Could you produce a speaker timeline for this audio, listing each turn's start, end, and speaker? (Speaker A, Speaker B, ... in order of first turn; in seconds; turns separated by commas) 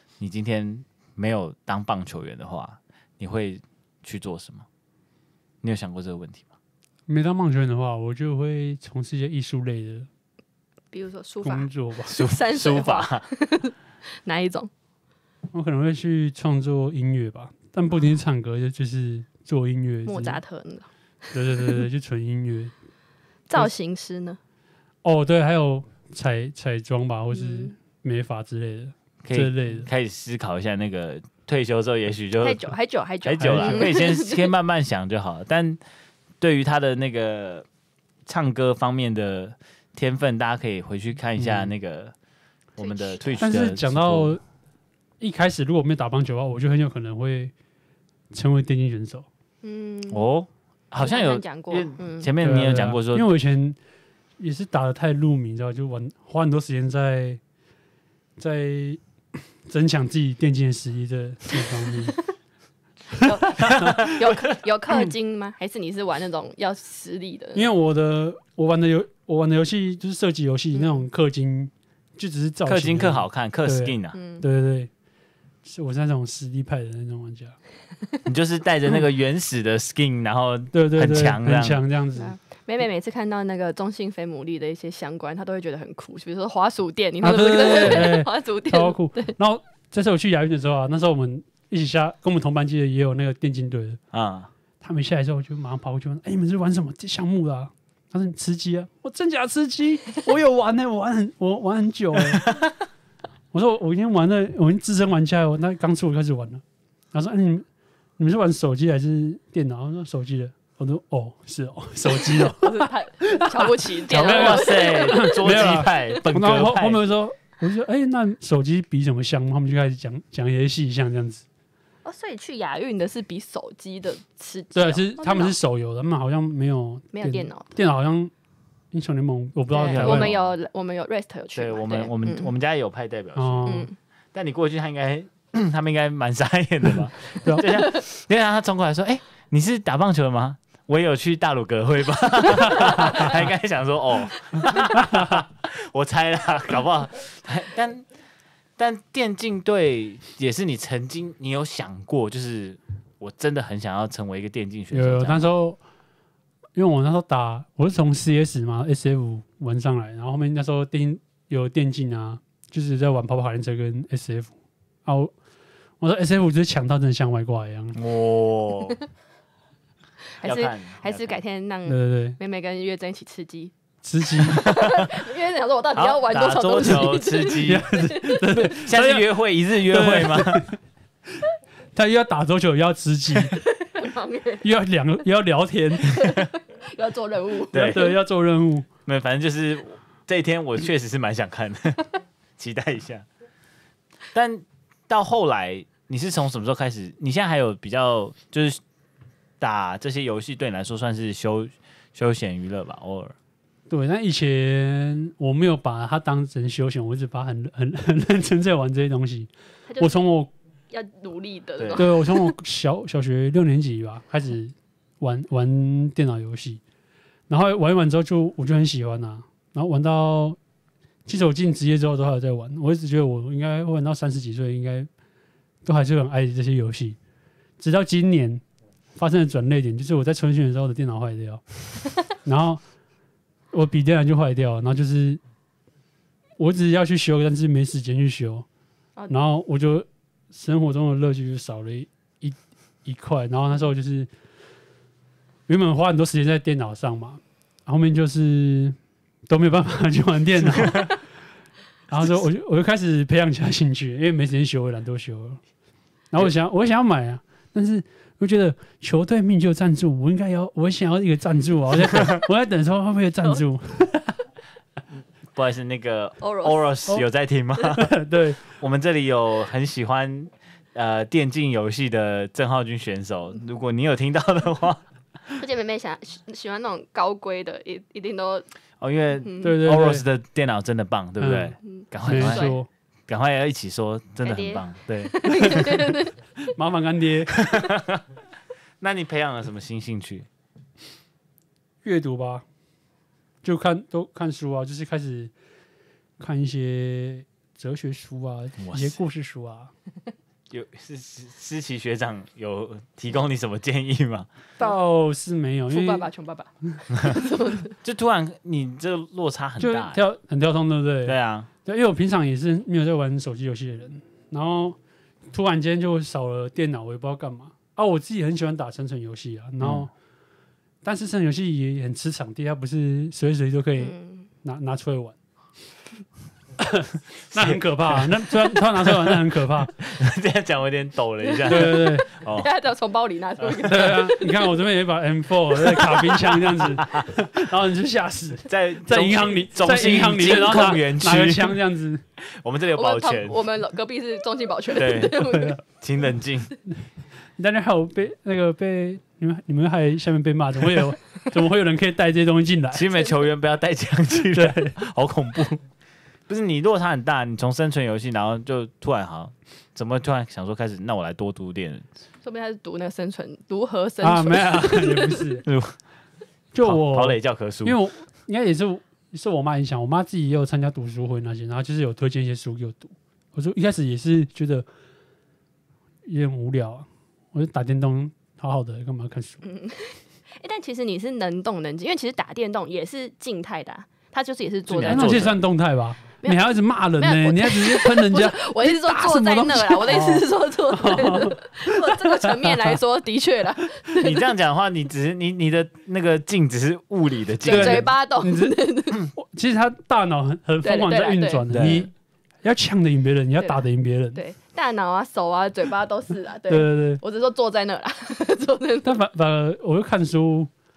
Speaker A: 0.2-4.7, Speaker A: 5.6-6.5, Speaker B: 7.1-10.1, Speaker C: 10.9-14.7, Speaker B: 11.4-12.2, Speaker A: 12.1-13.3, Speaker B: 15.5-20.4, Speaker C: 20.1-20.9, Speaker B: 21.3-22.7, Speaker C: 21.4-21.8, Speaker C: 23.5-24.4, Speaker B: 25.0-29.9, Speaker C: 27.3-27.7, Speaker A: 29.2-35.8, Speaker C: 32.4-34.5, Speaker B: 33.4-33.9, Speaker A: 36.4-37.7, Speaker A: 38.3-42.1, Speaker B: 41.4-41.7, Speaker A: 42.8-44.3, Speaker C: 42.8-43.5, Speaker B: 43.4-44.4, Speaker B: 45.2-47.5, Speaker B: 48.3-49.3, Speaker C: 49.6-50.2, Speaker A: 50.1-53.3, Speaker C: 51.0-52.3, Speaker B: 52.4-53.8, Speaker B: 54.4-57.4, Speaker B: 58.4-59.0, Speaker B: 59.7-62.2, Speaker C: 62.1-62.3, Speaker C: 63.1-67.7, Speaker B: 63.3-64.1, Speaker A: 63.7-64.1, Speaker B: 67.5-74.9, Speaker C: 70.7-71.1, Speaker A: 72.7-74.2, Speaker C: 74.1-74.5, Speaker B: 75.6-77.6, Speaker A: 78.3-81.8, Speaker B: 80.7-82.3, Speaker C: 82.2-89.3, Speaker B: 87.2-94.0, Speaker A: 94.1-94.5, Speaker B: 94.8-102.5, Speaker A: 102.3-102.7, Speaker B: 103.5-107.7, Speaker B: 108.2-121.4, Speaker C: 112.0-115.6, Speaker A: 114.1-117.0, Speaker C: 122.0-125.6, Speaker B: 124.8-128.3, Speaker C: 127.1-127.7, Speaker B: 128.9-130.3, Speaker C: 129.7-132.5, Speaker A: 129.8-130.5, Speaker A: 131.5-148.0, Speaker B: 133.3-133.9, Speaker C: 133.7-133.9, Speaker B: 137.4-137.8, Speaker A: 148.8-155.5, Speaker B: 154.9-155.8, Speaker B: 156.8-164.5, Speaker B: 165.0-165.3, Speaker B: 166.0-168.0, Speaker A: 167.9-169.0, Speaker C: 170.4-173.7, Speaker A: 170.4-171.4, Speaker B: 171.8-172.4, Speaker B: 174.0-174.7, Speaker C: 174.4-178.4, Speaker A: 174.6-175.1, Speaker A: 175.9-177.9, Speaker B: 177.6-180.8, Speaker A: 178.4-180.6, Speaker B: 182.0-183.6, Speaker C: 183.6-184.7, Speaker B: 184.6-186.2, Speaker C: 186.0-188.2, Speaker A: 187.7-188.0, Speaker B: 187.8-188.9, Speaker A: 189.1-193.3, Speaker A: 194.3-198.8, Speaker A: 199.6-203.3, Speaker B: 203.9-210.5, Speaker C: 209.9-210.2, Speaker C: 210.9-212.5, Speaker A: 211.8-212.1, Speaker B: 212.0-216.8, Speaker B: 217.5-220.6, Speaker B: 221.3-225.1, Speaker B: 225.8-227.2, Speaker B: 227.8-228.6, Speaker B: 229.2-232.8, Speaker B: 233.7-235.4, Speaker B: 236.6-238.7, Speaker B: 239.3-244.3, Speaker B: 245.7-249.0, Speaker B: 249.5-251.2, Speaker B: 252.1-255.6, Speaker B: 256.3-264.3, Speaker A: 265.5-268.1, Speaker C: 266.4-266.9, Speaker B: 268.0-268.6, Speaker A: 268.8-275.0, Speaker C: 275.6-278.7, Speaker A: 279.0-282.8, Speaker C: 279.4-279.8, Speaker B: 279.6-280.2, Speaker B: 281.4-282.9, Speaker C: 281.8-282.8, Speaker A: 283.3-286.0, Speaker C: 284.4-286.4, Speaker B: 286.8-287.6, Speaker A: 287.5-288.2, Speaker A: 289.0-290.5, Speaker B: 292.0-292.6, Speaker B: 293.6-295.5, Speaker B: 296.4-299.9, Speaker A: 298.8-299.2, Speaker A: 300.7-304.5, Speaker B: 304.8-306.3, Speaker C: 305.9-307.9, Speaker A: 308.0-310.2, Speaker B: 309.8-315.0, Speaker A: 311.2-311.7, Speaker B: 315.5-320.1, Speaker A: 319.8-320.1, Speaker B: 321.0-325.4, Speaker C: 324.0-324.5, Speaker B: 326.8-329.9, Speaker A: 327.5-332.7, Speaker C: 331.4-334.7, Speaker B: 331.7-332.2, Speaker B: 333.9-342.2, Speaker C: 336.0-336.2, Speaker A: 336.8-337.3, Speaker A: 338.7-341.8, Speaker A: 342.4-343.6, Speaker C: 342.9-345.8, Speaker A: 344.9-346.7, Speaker B: 345.5-345.8, Speaker B: 347.6-353.1, Speaker A: 352.9-355.8, Speaker B: 354.5-354.9, Speaker A: 356.5-362.1, Speaker C: 362.4-365.5, Speaker B: 364.2-365.7, Speaker A: 365.6-365.9, Speaker B: 366.7-374.9, Speaker A: 366.8-368.0, Speaker B: 376.2-379.6, Speaker C: 379.6-385.6, Speaker A: 384.9-385.6, Speaker B: 385.1-393.0, Speaker C: 387.2-394.4, Speaker A: 394.2-398.1, Speaker C: 397.6-399.3, Speaker B: 397.7-402.1, Speaker C: 400.8-401.9, Speaker A: 401.7-402.1, Speaker B: 402.6-404.4, Speaker C: 404.3-409.2, Speaker B: 406.7-407.2, Speaker B: 409.0-410.7